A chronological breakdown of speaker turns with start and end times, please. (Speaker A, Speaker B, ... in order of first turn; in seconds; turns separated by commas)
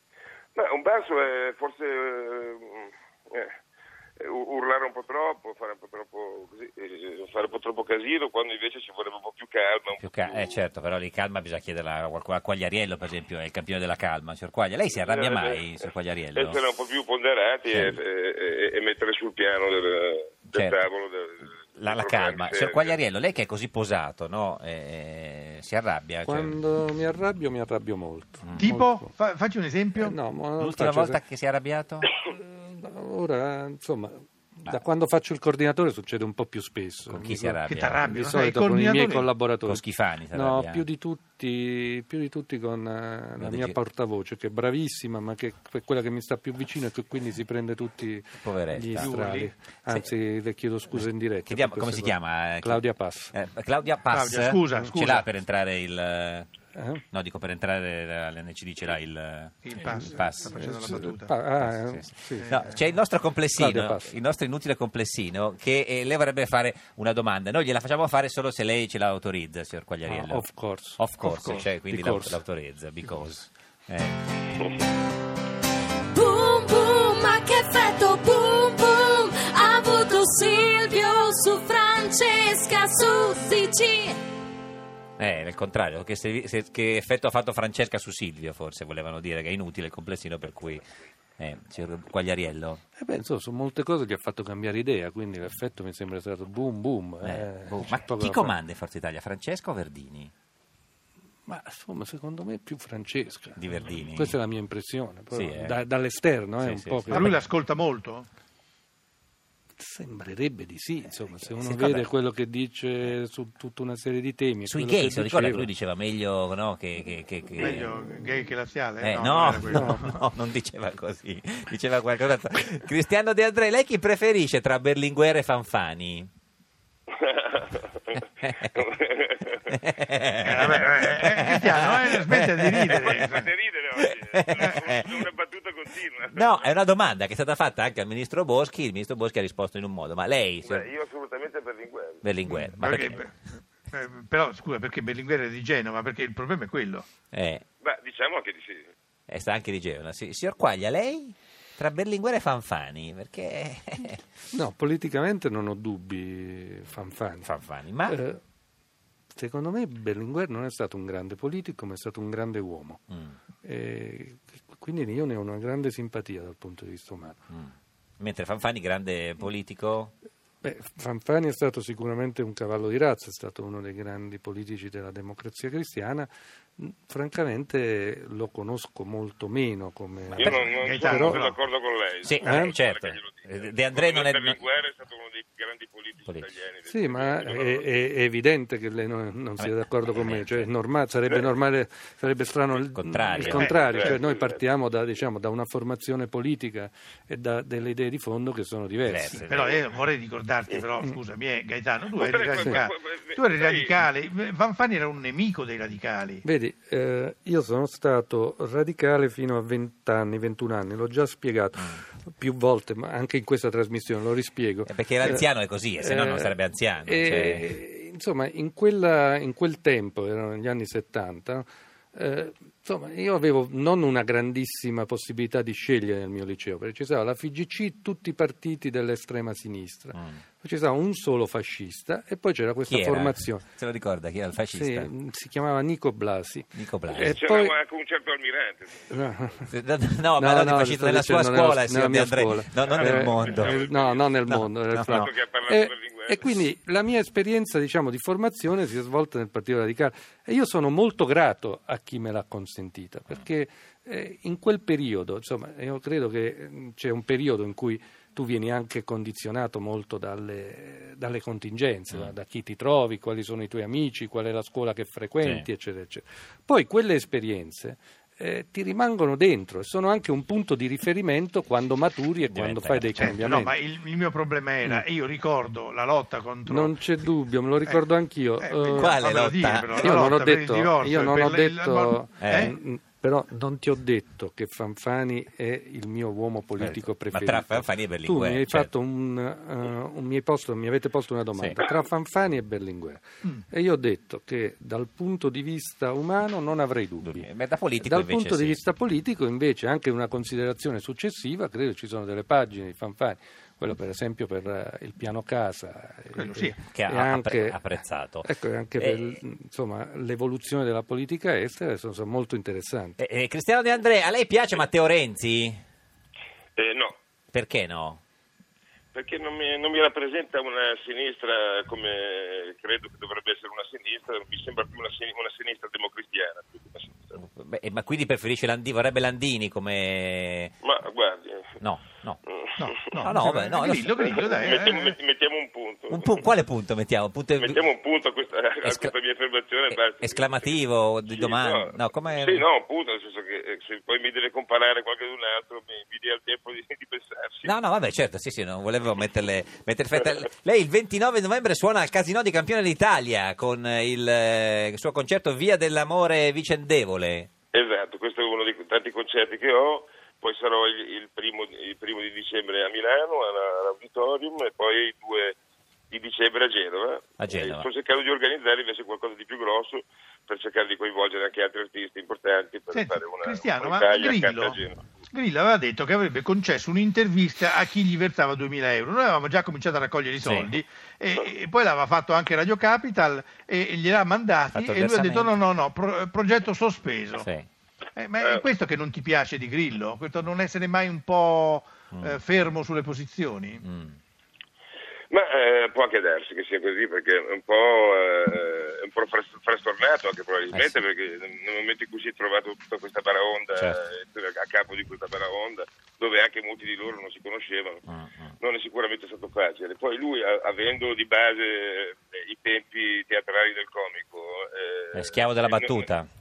Speaker A: 0.6-3.5, Speaker A: 4.2-10.6, Speaker B: 10.0-16.6, Speaker A: 14.9-15.7, Speaker A: 16.4-23.0, Speaker B: 17.7-18.0, Speaker B: 20.5-20.8, Speaker B: 21.8-26.6, Speaker C: 26.2-29.1, Speaker D: 28.6-30.2, Speaker C: 30.0-31.2, Speaker B: 30.6-32.1, Speaker C: 32.2-53.3, Speaker B: 37.1-38.0, Speaker D: 37.7-39.3, Speaker B: 39.6-40.8, Speaker B: 43.4-43.7, Speaker B: 48.4-49.1, Speaker D: 49.0-49.5, Speaker B: 51.5-56.5, Speaker D: 54.1-55.3, Speaker C: 56.7-57.0, Speaker B: 57.1-60.5, Speaker D: 59.6-61.3, Speaker C: 60.5-62.5, Speaker B: 61.6-74.2, Speaker D: 62.3-62.7, Speaker C: 63.6-64.1, Speaker C: 70.1-72.4, Speaker E: 76.1-84.2, Speaker B: 85.2-90.8, Speaker B: 91.4-92.8, Speaker C: 93.0-98.6, Speaker B: 97.2-100.3, Speaker C: 101.5-107.4, Speaker B: 103.6-104.3, Speaker B: 105.3-105.8, Speaker B: 106.6-107.4, Speaker D: 107.1-108.3, Speaker C: 109.8-115.7, Speaker B: 111.5-112.1, Speaker B: 114.7-117.9, Speaker D: 117.6-120.2, Speaker B: 119.0-126.3, Speaker C: 119.6-120.1, Speaker A: 127.2-129.8, Speaker B: 128.4-128.7, Speaker B: 129.7-133.2, Speaker D: 130.4-133.5, Speaker A: 130.6-131.1, Speaker A: 132.9-136.8, Speaker B: 134.0-135.2, Speaker B: 136.3-140.9, Speaker A: 140.6-142.2, Speaker B: 142.2-143.2, Speaker D: 142.5-143.3, Speaker D: 143.9-147.1, Speaker B: 147.3-147.6, Speaker A: 147.8-148.9, Speaker B: 149.3-154.2, Speaker C: 154.5-157.5, Speaker B: 157.4-158.2, Speaker C: 158.1-158.4, Speaker C: 159.3-163.0, Speaker C: 163.6-167.4, Speaker B: 167.5-170.1, Speaker C: 170.6-181.4, Speaker A: 180.3-187.9, Speaker D: 180.7-181.6, Speaker B: 182.2-184.6, Speaker C: 182.4-182.8, Speaker C: 186.9-199.4, Speaker B: 189.6-190.7, Speaker B: 192.8-193.9, Speaker A: 193.4-194.6, Speaker D: 193.9-194.2, Speaker B: 199.1-199.7, Speaker D: 199.5-206.4, Speaker A: 202.2-204.0, Speaker C: 206.4-215.5, Speaker B: 214.9-217.7, Speaker C: 216.0-216.5, Speaker C: 217.1-233.7, Speaker B: 232.9-235.1, Speaker C: 234.7-237.8, Speaker B: 236.8-237.4, Speaker A: 237.3-239.5, Speaker C: 239.1-239.7, Speaker B: 239.7-243.8, Speaker C: 240.4-273.8, Speaker A: 242.8-244.3, Speaker B: 244.5-245.3, Speaker A: 245.1-246.6, Speaker B: 272.5-273.4, Speaker D: 273.2-277.0, Speaker C: 276.7-279.2, Speaker D: 278.6-282.7, Speaker B: 279.0-280.2, Speaker C: 280.0-297.5, Speaker B: 282.4-282.7, Speaker B: 286.8-288.9, Speaker B: 297.2-298.8, Speaker C: 298.0-313.2, Speaker D: 306.4-306.8, Speaker B: 306.9-308.5, Speaker B: 309.0-309.4, Speaker B: 313.2-315.8, Speaker A: 316.8-317.2, Speaker B: 317.5-318.2, Speaker A: 319.1-327.4, Speaker B: 327.4-330.7, Speaker A: 330.8-331.7, Speaker B: 331.8-332.4, Speaker A: 332.5-333.2, Speaker D: 332.8-335.2, Speaker B: 333.2-334.5, Speaker A: 334.4-336.5, Speaker B: 336.1-337.9, Speaker A: 337.6-347.7, Speaker B: 338.8-339.1, Speaker B: 339.9-342.6, Speaker B: 347.6-357.5, Speaker A: 357.7-365.6, Speaker A: 366.1-375.0, Speaker B: 367.4-367.9, Speaker D: 372.9-374.8, Speaker D: 375.3-387.5, Speaker B: 380.4-380.7, Speaker B: 384.7-385.5, Speaker B: 387.4-387.7, Speaker D: 388.2-393.8, Speaker B: 392.1-392.4, Speaker B: 393.8-394.2, Speaker A: 395.3-408.0, Speaker B: 400.7-401.0, Speaker B: 403.8-404.0, Speaker B: 408.1-408.6, Speaker A: 408.6-416.1, Speaker B: 415.1-416.3